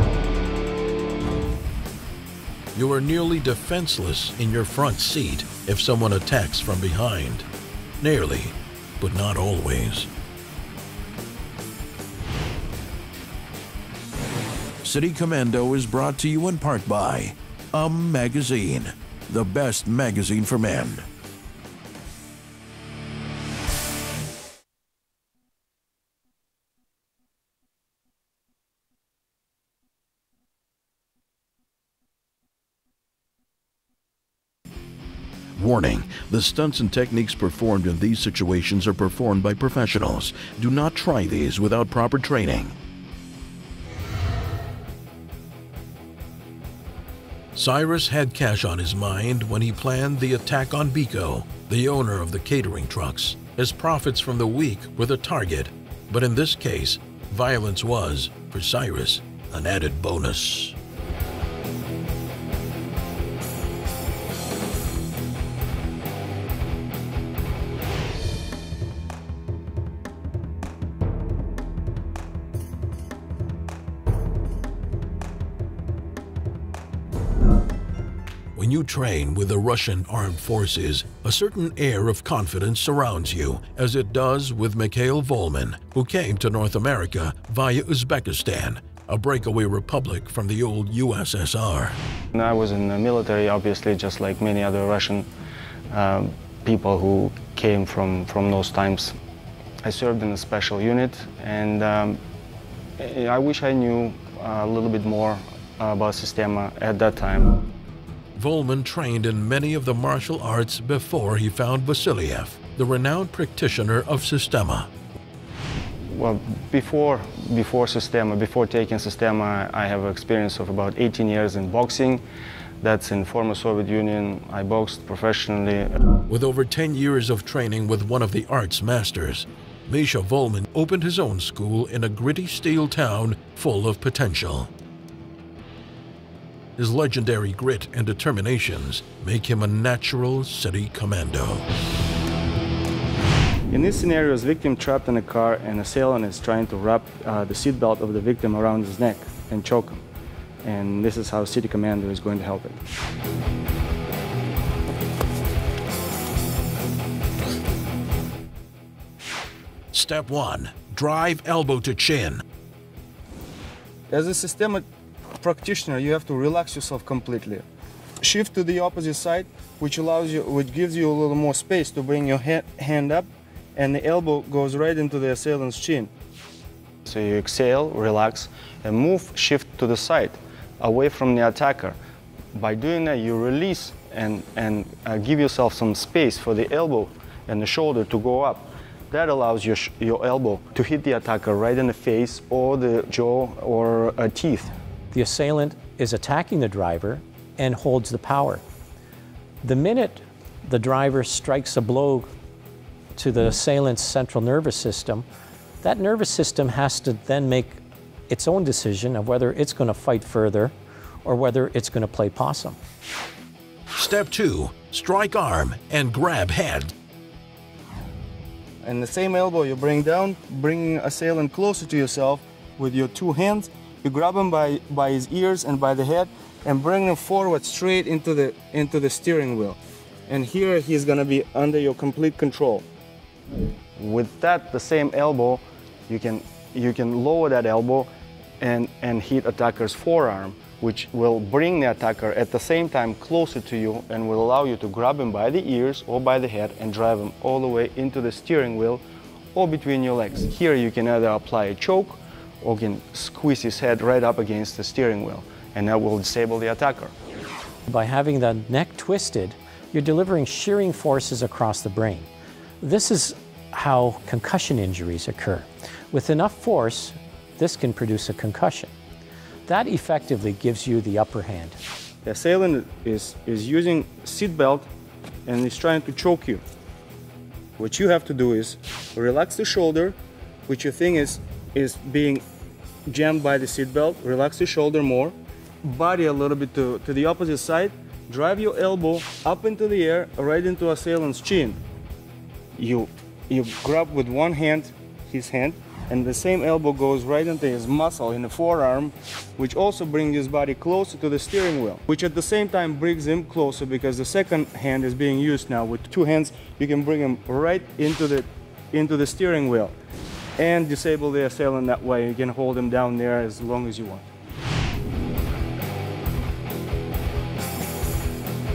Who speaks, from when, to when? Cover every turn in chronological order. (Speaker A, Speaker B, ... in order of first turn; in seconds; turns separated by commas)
Speaker A: 2.7-7.5, Speaker A: 8.0-10.1, Speaker A: 14.8-21.1, Speaker A: 35.5-42.8, Speaker A: 47.5-60.8, Speaker A: 78.5-92.0, Speaker B: 92.3-95.3, Speaker B: 95.9-99.2, Speaker B: 99.8-102.2, Speaker B: 103.0-107.6, Speaker A: 108.3-114.9, Speaker B: 116.1-122.2, Speaker B: 122.8-126.0, Speaker A: 126.3-134.7, Speaker A: 136.8-141.7, Speaker B: 143.7-150.0, Speaker B: 150.6-152.8, Speaker A: 159.9-162.4, Speaker B: 164.1-164.8, Speaker B: 165.4-167.7, Speaker B: 168.2-176.1, Speaker B: 177.1-182.0, Speaker B: 182.5-194.7, Speaker C: 195.1-198.6, Speaker C: 199.6-202.3, Speaker C: 203.2-205.2, Speaker C: 205.8-210.7, Speaker C: 211.2-212.8, Speaker A: 213.9-216.9, Speaker B: 218.8-232.8, Speaker B: 234.0-249.0, Speaker B: 249.5-257.1, Speaker C: 257.9-262.3, Speaker C: 262.8-268.9, Speaker C: 269.6-271.8, Speaker B: 272.2-274.9, Speaker B: 275.4-276.6, Speaker B: 277.8-282.4, Speaker B: 283.1-291.8, Speaker B: 292.8-309.9, Speaker B: 310.6-314.2